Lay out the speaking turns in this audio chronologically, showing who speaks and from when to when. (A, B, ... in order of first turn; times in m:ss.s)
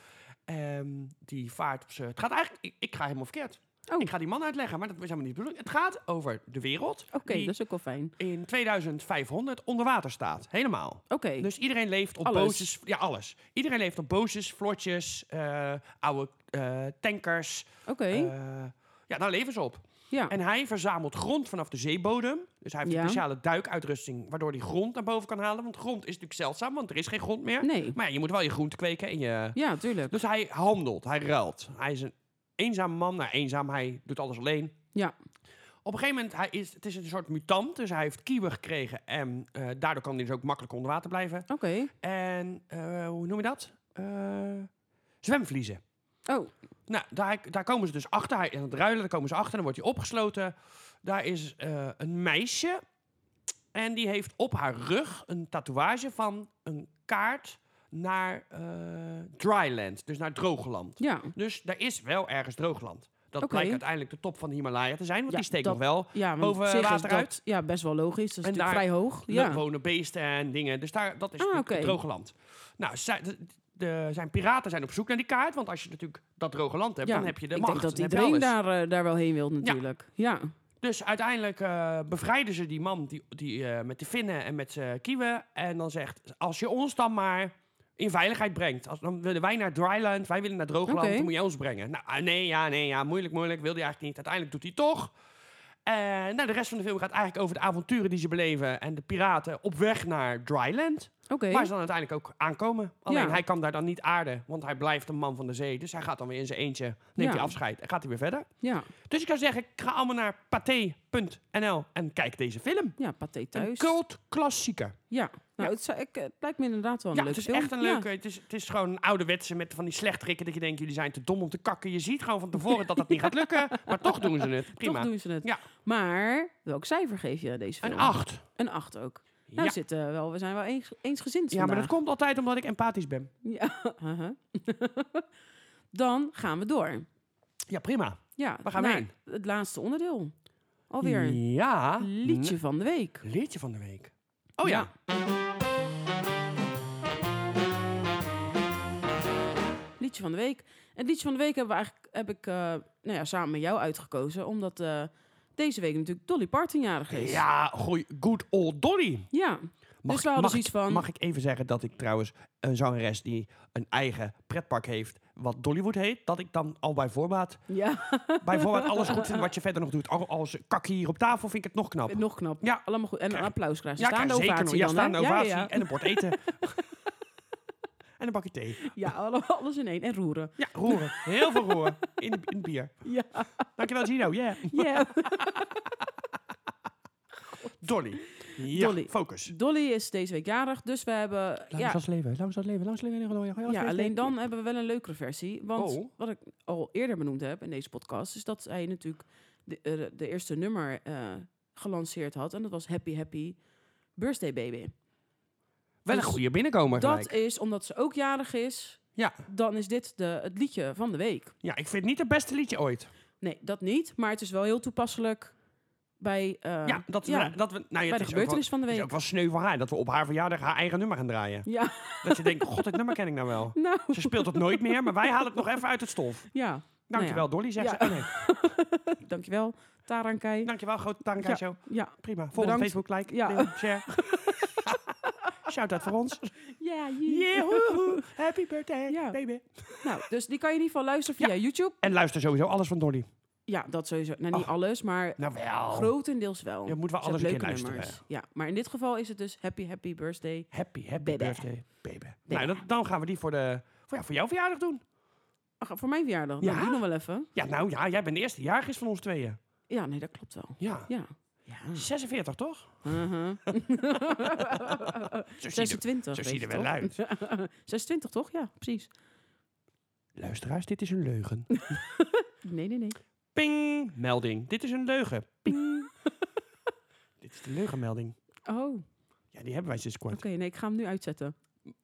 0:00.5-0:07.5 A
0:07.1-0:08.1 B
0:08.2-0:34.8 A
0:11.1-0:11.5 B
0:12.2-0:12.7 B
0:17.8-0:18.3 B
0:22.8-0:23.2 B
0:27.6-0:28.0 B
0:29.5-0:30.1 B
0:35.8-0:41.5 A
0:41.5-0:41.9 B
0:42.0-0:44.7 A
0:45.2-0:45.8 A
0:46.2-0:46.5 B
0:46.9-0:52.8 A
0:53.7-1:07.4 A
1:01.0-1:01.3 B
1:03.4-1:03.8 B
1:05.3-1:09.6 B
1:08.4-1:18.5 A
1:11.4-1:12.0 B
1:17.0-1:20.5 B
1:20.8-1:35.1 A
1:30.9-1:31.3 B
1:35.8-1:48.5 A
1:41.3-1:41.7 B
1:43.1-1:43.4 B
1:47.2-1:47.6 B
1:48.6-1:48.9 B
1:49.1-1:53.0 A
1:53.0-1:53.9 B
1:53.5-1:55.0 A
1:55.1-1:58.0 B
1:57.1-2:05.6 A
2:02.7-2:11.9 B
2:07.8-2:08.4 A
2:09.5-2:09.8 A
2:11.5-2:13.3 A
2:13.4-2:15.3 B
2:15.9-2:17.1 B
2:17.7-2:19.1 A
2:18.4-2:20.3 B
2:20.9-2:21.4 B
2:21.0-2:22.6 A
2:22.0-2:23.2 B
2:23.2-2:24.9 A
2:24.6-2:24.9 B
2:30.0-2:37.4 B
2:37.1-2:39.3 A
2:39.3-2:41.0 B
2:40.0-2:47.6 A
2:47.7-2:49.5 B
2:48.4-2:56.8 A
2:52.1-2:56.3 B
2:58.2-2:58.9 A
2:58.8-3:01.9 B
3:00.6-3:02.9 A
3:03.0-3:03.6 B
3:03.8-3:05.6 A
3:04.6-3:05.8 B
3:07.8-3:09.5 A
3:08.3-3:12.0 B
3:11.7-3:14.3 A
3:13.6-3:23.6 B
3:15.8-3:16.1 A
3:24.2-3:24.9 B
3:26.0-3:27.3 A
3:26.1-3:31.5 B
3:31.6-3:33.1 A
3:33.4-3:35.5 B
3:36.2-3:39.1 B
3:36.8-3:41.7 A
3:41.6-3:43.1 B
3:42.2-3:46.5 A
3:43.7-3:45.4 B
3:46.5-3:50.7 B
3:47.1-3:48.4 A
3:50.6-3:55.0 A
3:51.4-3:55.3 B
3:55.6-3:56.5 A
3:56.8-3:58.3 B
3:57.2-4:00.1 A
3:59.1-3:59.4 B
4:00.0-4:02.0 B
4:01.4-4:03.3 A
4:03.7-4:11.7 B
4:05.4-4:06.1 A
4:06.8-4:08.2 A
4:10.7-4:15.0 A
4:12.5-4:12.8 B
4:15.8-4:17.5 B
4:16.6-4:17.0 A
4:17.5-4:19.6 A
4:19.9-4:22.0 B
4:20.8-4:21.1 A
4:21.9-4:23.2 A
4:23.0-4:29.1 B
4:23.7-4:27.2 A
4:30.4-4:31.8 A
4:31.9-4:33.2 B
4:33.5-4:36.1 A
4:35.7-4:36.1 B
4:37.4-4:38.3 A
4:38.7-4:39.0 B
4:39.5-4:40.4 A
4:40.3-4:41.5 B